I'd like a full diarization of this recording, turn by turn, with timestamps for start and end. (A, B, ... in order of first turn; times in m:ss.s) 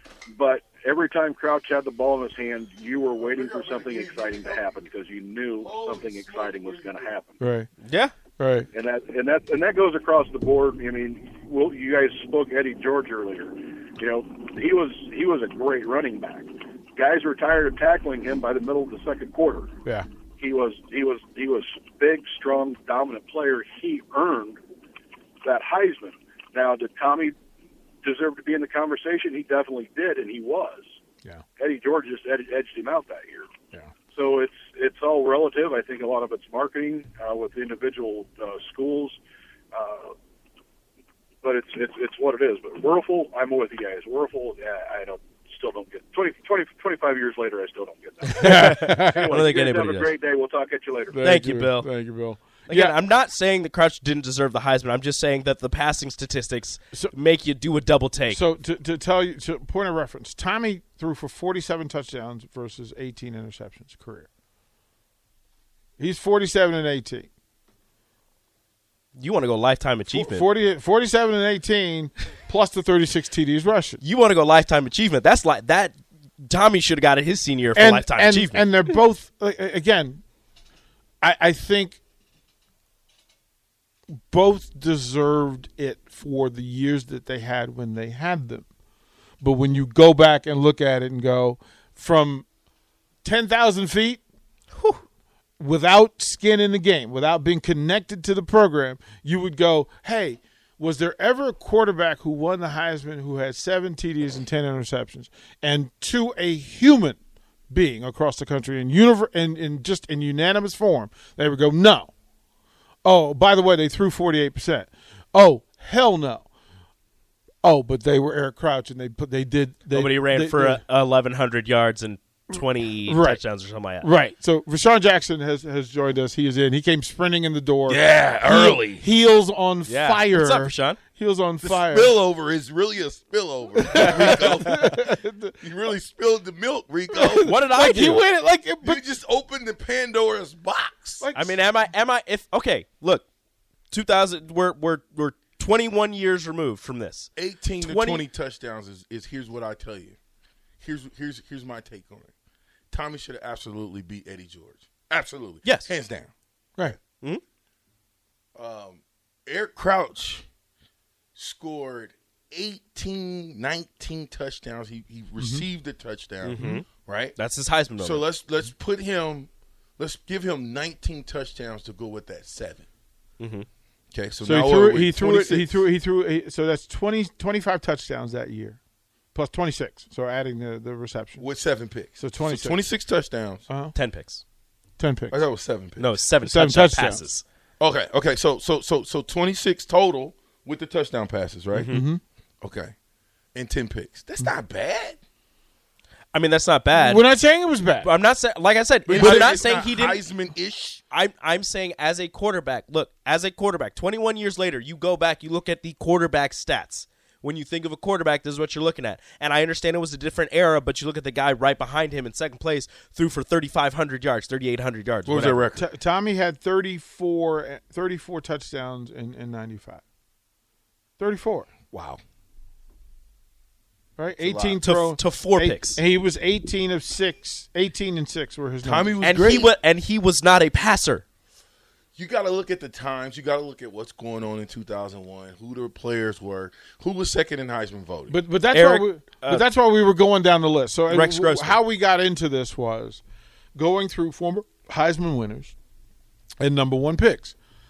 0:00.3-0:07.4 A
0:03.1-0:04.8 B
0:05.6-0:07.1 B
0:07.4-0:07.7 C
0:07.8-0:08.1 D
0:08.4-0:08.7 C
0:08.7-0:19.7 A
0:20.4-0:24.6 A
0:25.4-0:27.3 A
0:28.0-0:30.9 A
0:31.6-0:33.5 A
0:34.1-0:39.2 A
0:39.7-0:40.1 A
0:41.4-0:48.5 A
0:48.2-0:50.1 D
0:48.4-0:49.4 C
0:49.1-0:51.2 A
0:51.1-0:53.0 C
0:51.2-0:51.9 D
0:52.7-0:58.4 D
0:58.3-1:04.3 C
1:06.0-1:07.3 C
1:09.2-1:10.4 D
1:10.1-1:14.0 C
1:14.0-1:18.7 D
1:17.7-1:20.2 C
1:21.2-1:22.0 C
1:24.1-1:28.6 C
1:29.4-1:32.5 C
1:33.2-1:34.2 C
1:34.8-1:35.0 D
1:35.6-1:47.2 C
1:47.7-1:52.1 C
1:53.0-1:56.5 C
1:57.6-2:00.8 C
1:59.9-2:04.1 D
2:02.6-2:03.5 C
2:04.0-2:12.1 C
2:07.9-2:09.0 B
2:09.8-2:11.0 D
2:11.6-2:14.9 B
2:13.7-2:15.6 C
2:15.6-2:17.6 B
2:17.1-2:19.0 C
2:17.4-2:18.2 D
2:18.8-2:21.2 B
2:21.2-2:21.7 C
2:21.3-2:23.2 D
2:23.9-2:28.2 D
2:27.4-2:30.2 B
2:30.8-2:32.3 B
2:32.9-2:36.3 B
2:35.6-2:35.9 D
2:38.5-2:40.5 B
2:41.4-2:47.4 B
2:45.4-2:45.6 C
2:46.4-2:48.2 D
2:46.6-2:46.8 C
2:48.0-2:52.9 B
2:53.4-2:53.7 D
2:54.1-2:55.8 B
2:54.4-2:58.8 C
2:59.3-3:01.5 C
3:01.4-3:03.6 B
3:02.2-3:03.0 C
3:03.7-3:03.9 C
3:03.9-3:04.4 D
3:05.0-3:05.5 C
3:05.3-3:06.3 B
3:06.0-3:07.4 D
3:06.4-3:07.3 C
3:07.8-3:12.0 B
3:11.7-3:12.0 D
3:11.9-3:12.2 C
3:12.6-3:12.9 B
3:13.5-3:15.2 B
3:16.3-3:17.3 D
3:16.9-3:18.1 C
3:18.0-3:20.2 D
3:19.0-3:21.0 B
3:21.1-3:35.6 D
3:35.2-3:35.8 B
3:35.6-3:40.0 C
3:41.2-3:41.7 C
3:41.8-3:42.2 B
3:44.2-3:49.2 C
3:44.4-3:44.8 B
3:44.8-3:46.0 D
3:48.8-3:49.7 B
3:49.2-3:51.2 D
3:52.2-3:58.4 B
3:58.3-4:03.2 C
3:58.7-3:59.6 D
4:01.1-4:01.8 D
4:03.7-4:05.7 C
4:06.6-4:07.5 C